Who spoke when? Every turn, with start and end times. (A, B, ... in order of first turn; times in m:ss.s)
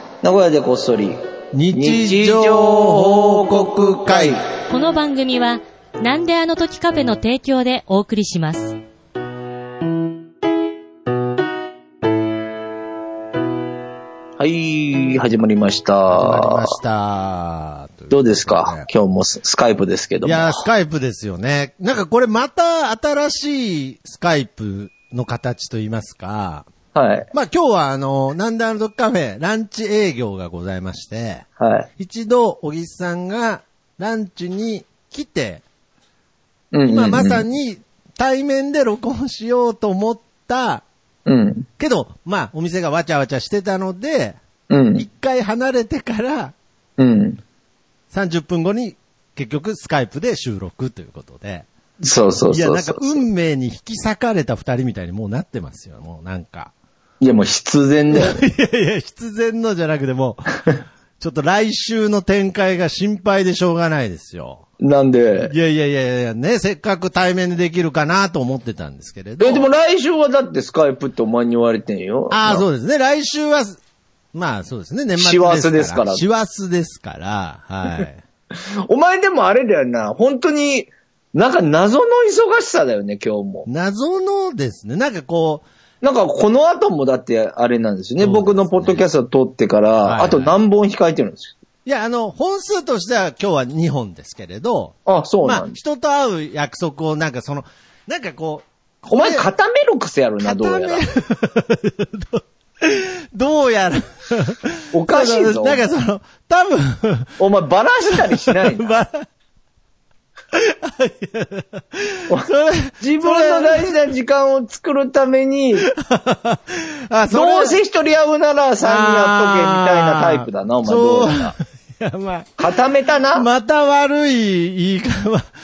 0:00.2-0:01.2 A
0:01.5-0:04.4 B
0:01.7-0:04.4 A
0:04.7-0:08.8 C
0:14.4-0:16.8 A
0:16.1-0:18.9 B
0:18.1-0:20.6 A
0:20.2-0:26.7 B
0:26.9-0:27.3 A
0:27.3-0:31.4 B
0:31.6-0:31.9 A
0:32.0-0:35.6 B
0:36.7-0:37.4 A
0:36.9-0:40.8 B
0:41.2-0:41.7 A
0:41.8-0:44.4 B
0:44.7-0:45.0 A
0:45.0-0:46.5 B
0:47.0-0:47.4 A
0:48.1-0:51.7 B
0:52.0-0:53.2 A
0:52.5-0:56.7 B
0:57.2-0:58.4 A
0:58.1-1:00.5 B
1:01.2-1:04.6 B
1:04.8-1:05.5 A
1:05.4-1:09.6 B
1:09.4-1:12.6 A
1:12.3-1:13.8 B
1:14.3-1:18.2 B
1:15.2-1:16.2 A
1:18.9-1:23.7 A
1:23.7-1:25.6 B
1:26.0-1:31.5 A
1:28.2-1:29.0 B
1:30.0-1:30.5 B
1:31.8-1:39.4 B
1:35.0-1:35.8 A
1:39.1-1:41.0 A
1:40.4-1:47.4 B
1:44.9-1:45.8 A
1:47.4-1:49.0 A
1:48.1-1:49.2 B
1:50.5-1:54.0 B
1:53.0-1:55.9 A
1:55.8-1:57.8 B
1:57.3-2:01.5 A
1:58.8-2:02.7 B
2:02.6-2:03.5 A
2:03.3-2:05.5 B